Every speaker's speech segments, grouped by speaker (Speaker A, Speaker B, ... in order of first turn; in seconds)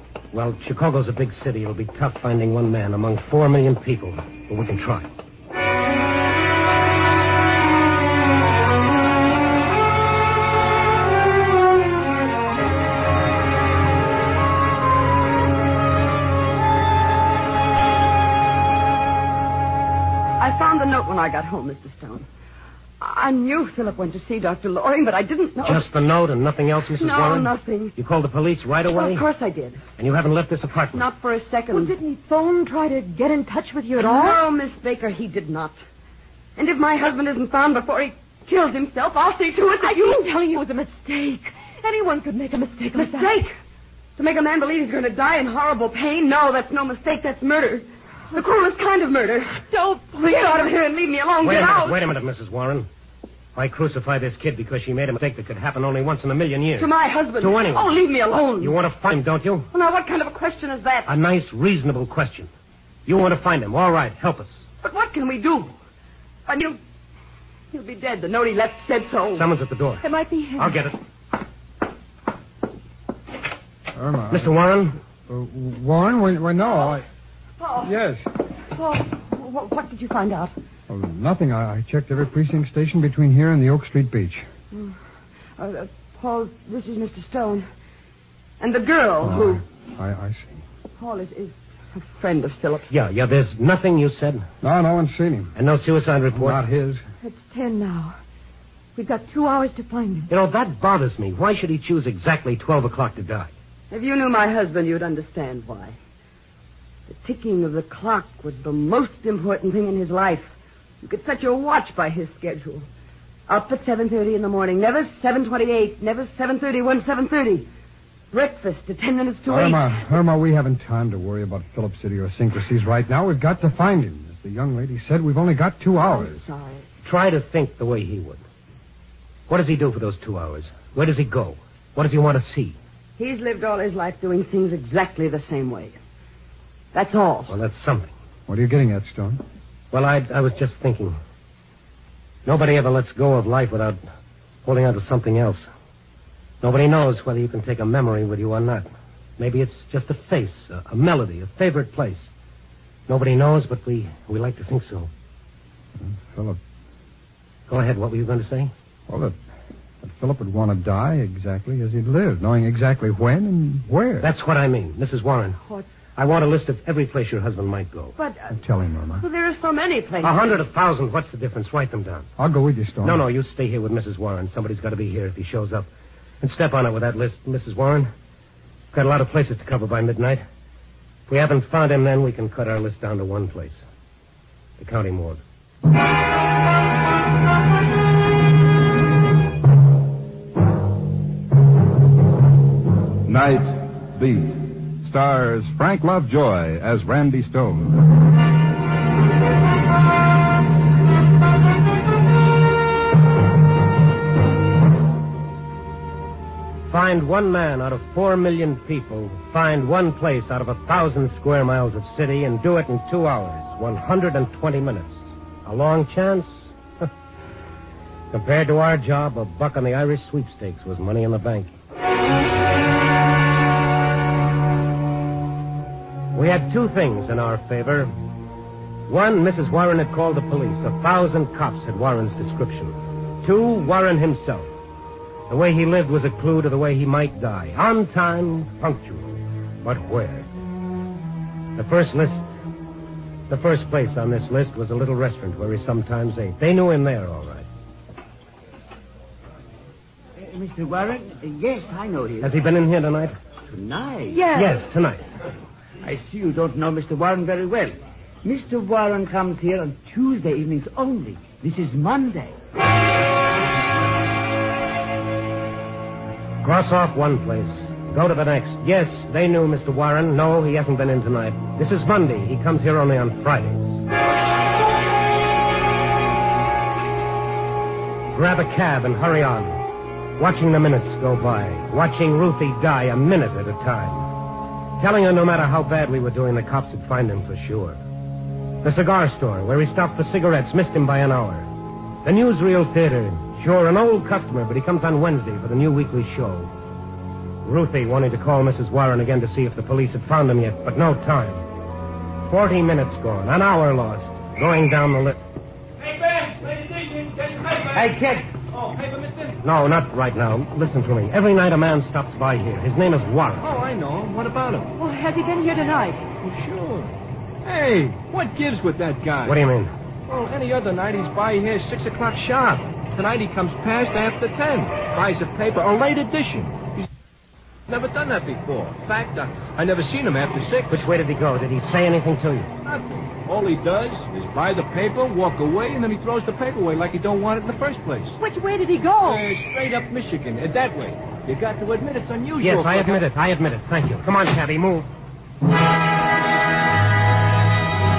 Speaker A: 0.3-5.1, 25.6-29.3, 30.0-31.1, 51.4-52.9, 53.5-58.1, 58.6-59.7, 61.1-62.5, 63.1-64.7, 69.3-70.0, 70.6-71.0, 74.3-75.0, 92.9-94.5, 95.6-96.6, 100.3-103.5, 127.0-128.4, 129.5-132.8, 137.5-138.1, 139.9-141.2, 142.5-144.0, 144.7-145.7, 146.6-152.3, 153.1-155.1, 157.7-158.7, 164.2-165.6, 166.2-168.2, 170.2-172.3, 173.0-175.9, 176.4-178.1, 178.9-180.4, 181.3-183.8, 184.8-185.4, 206.9-217.1, 218.3-221.7, 226.3-228.1, 229.1-234.7, 235.5-240.5, 241.8-242.5, 243.5-247.7, 252.4-253.4, 254.5-255.3, 266.6-274.0, 278.3-279.8, 280.4-284.3, 285.0-288.0, 288.8-291.7, 292.2-296.7, 297.6-301.6, 302.5-305.4, 309.6-313.7, 319.4-319.9, 330.9-332.7, 342.6-345.1
Speaker B: 20.4-22.3, 23.0-25.9, 26.9-27.9, 28.9-29.8, 30.9-31.9, 34.0-35.8, 36.6-40.3, 43.0-43.6, 44.2-49.6, 50.2-52.0, 56.8-58.8, 59.7-61.1, 64.8-65.7, 66.5-66.8, 67.7-69.5, 76.7-77.0, 77.6-78.0, 78.7-80.5, 85.6-87.7, 88.6-89.6, 91.0-92.9, 103.9-106.0, 107.1-112.9, 113.5-117.7, 118.3-120.0, 125.9-126.9, 133.2-136.0, 136.9-137.6, 168.2-168.6, 169.2-170.7
Speaker C: 31.7-34.4, 39.8-43.5, 49.6-50.8, 70.0-70.8, 97.2-98.2, 99.0-100.3, 254.3-254.8, 315.0-316.3, 338.4-339.4
Speaker D: 73.9-74.7, 75.3-77.1, 77.8-78.3, 80.9-84.5, 89.2-90.6, 94.6-95.6, 96.3-97.0, 119.5-126.4, 138.5-139.4, 156.0-156.6, 159.1-159.4, 160.0-164.3, 168.5-169.3, 172.4-173.3
Speaker E: 193.3-198.0
Speaker F: 250.4-252.6, 253.7-254.5, 256.0-262.6
Speaker G: 306.0-309.6, 313.6-314.9, 316.4-319.6, 320.3-327.1, 327.9-331.1, 332.8-338.4, 339.2-343.2